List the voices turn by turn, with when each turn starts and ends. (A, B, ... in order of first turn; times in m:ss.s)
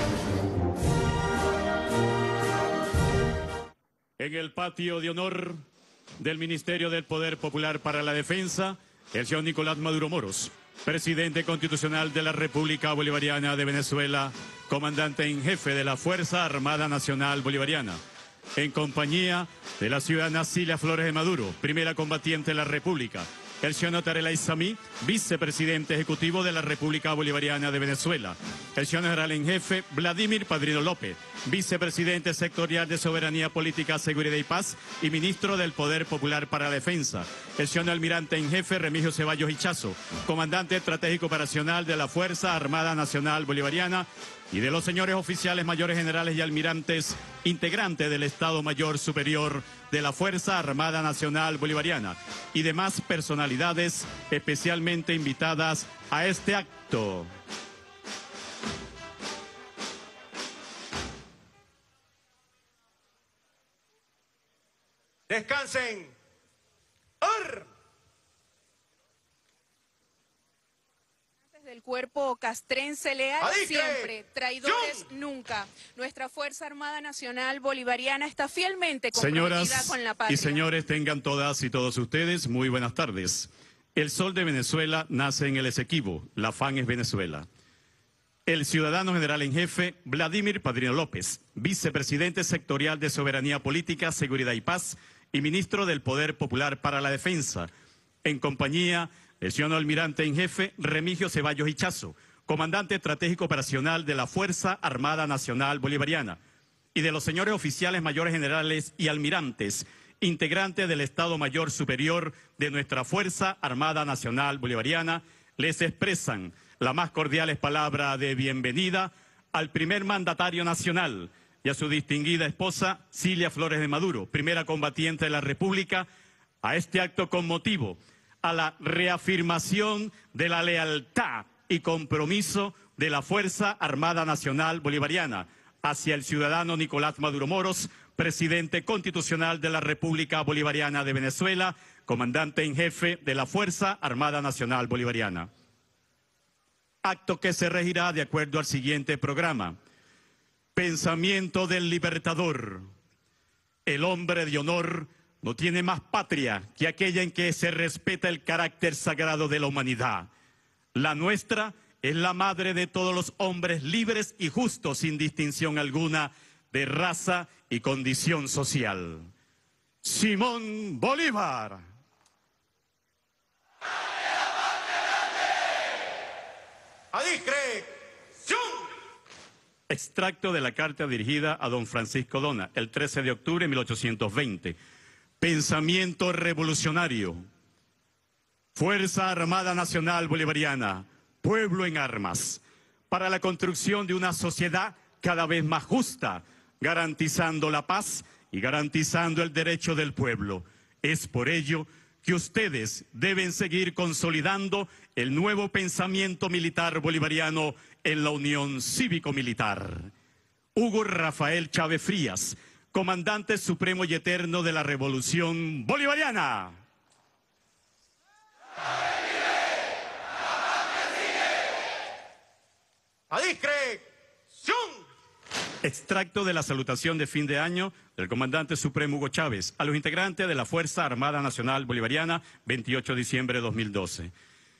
0:04.2-0:05.6 A
0:06.2-0:18.0 A
0:18.6-0:57.3 A
1:05.3-1:06.1 B
1:07.2-1:07.7 B
1:11.5-1:20.7 C
1:13.4-1:15.1 B
1:19.1-1:27.4 A
1:28.5-1:37.7 A
1:38.2-1:46.4 A
1:46.9-2:06.1 A
2:06.6-2:25.5 A
2:27.0-2:29.8 A
2:30.8-2:32.9 A
2:33.8-2:40.3 A
2:40.9-2:49.3 A
2:50.0-2:51.8 A
2:57.1-2:58.9 B
2:59.9-3:04.8 A
3:05.4-3:07.4 A
3:08.7-3:30.1 A
3:30.7-3:36.8 A
3:43.3-3:45.1 B
3:45.8-3:54.3 A